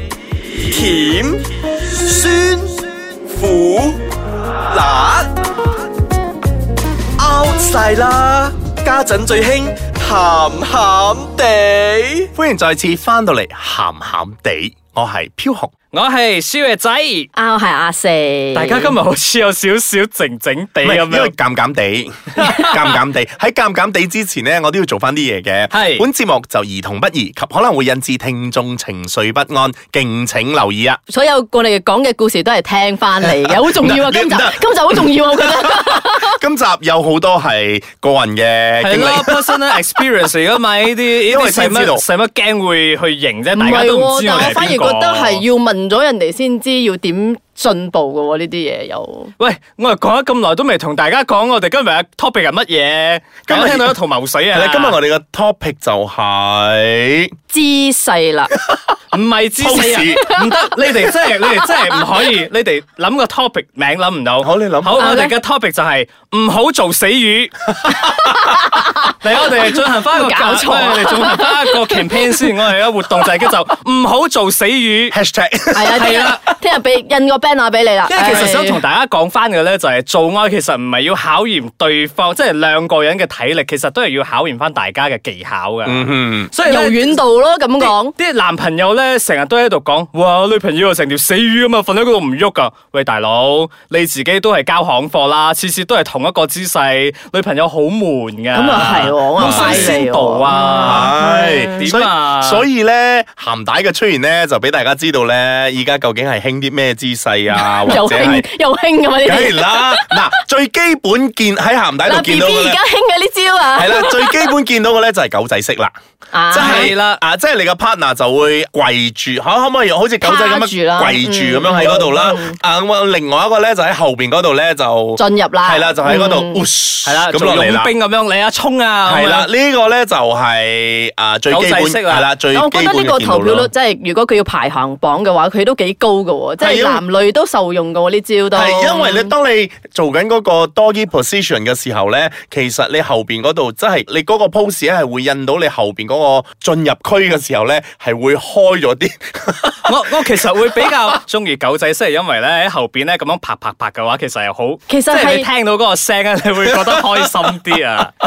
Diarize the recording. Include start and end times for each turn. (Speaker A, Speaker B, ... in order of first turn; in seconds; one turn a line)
Speaker A: 0.6-1.4
Speaker A: 2.0-4.0
Speaker A: 4.7-5.3
Speaker A: 7.2-12.3
Speaker B: 12.3-15.7
Speaker C: 15.9-17.3
Speaker D: 17.3-18.9
Speaker C: 18.6-21.3
Speaker B: 20.8-31.0
Speaker C: 22.4-23.0
Speaker C: 25.7-26.1
Speaker D: 31.1-36.3
Speaker B: 33.7-39.6
Speaker C: 38.8-45.4
Speaker B: 41.2-42.0
Speaker D: 43.5-49.3
Speaker C: 49.4-55.0
Speaker B: 53.5-54.0
Speaker B: 54.5-57.3
Speaker D: 57.5-58.5
Speaker C: 59.1-67.7
Speaker B: 59.6-60.3
Speaker B: 64.4-65.0
Speaker D: 65.0-65.3
Speaker B: 67.8-68.4
Speaker D: 68.2-69.2
Speaker C: 69.2-75.2
Speaker D: 70.0-72.2
Speaker B: 75.1-76.4
Speaker D: 75.7-78.8
Speaker C: 76.0-76.4
Speaker C: 78.1-87.2
Speaker B: 85.8-86.5
Speaker D: 86.7-88.1
Speaker C: 87.8-101.2
Speaker D: 98.5-101.8
Speaker B: 98.8-100.0
Speaker B: 100.8-108.5
Speaker C: 101.8-102.7
Speaker D: 107.5-110.3
Speaker B: 109.2-112.8
Speaker D: 112.0-114.5
Speaker B: 113.8-115.9
Speaker D: 116.3-116.9
Speaker B: 116.5-127.9
Speaker C: 116.5-117.2
Speaker D: 120.2-122.6
Speaker D: 125.2-126.6
Speaker C: 127.1-129.5
Speaker B: 129.1-133.7
Speaker C: 131.5-132.3
Speaker D: 132.5-139.3
Speaker B: 136.6-137.0
Speaker B: 138.5-149.9
Speaker C: 149.8-158.2
Speaker D: 154.9-155.5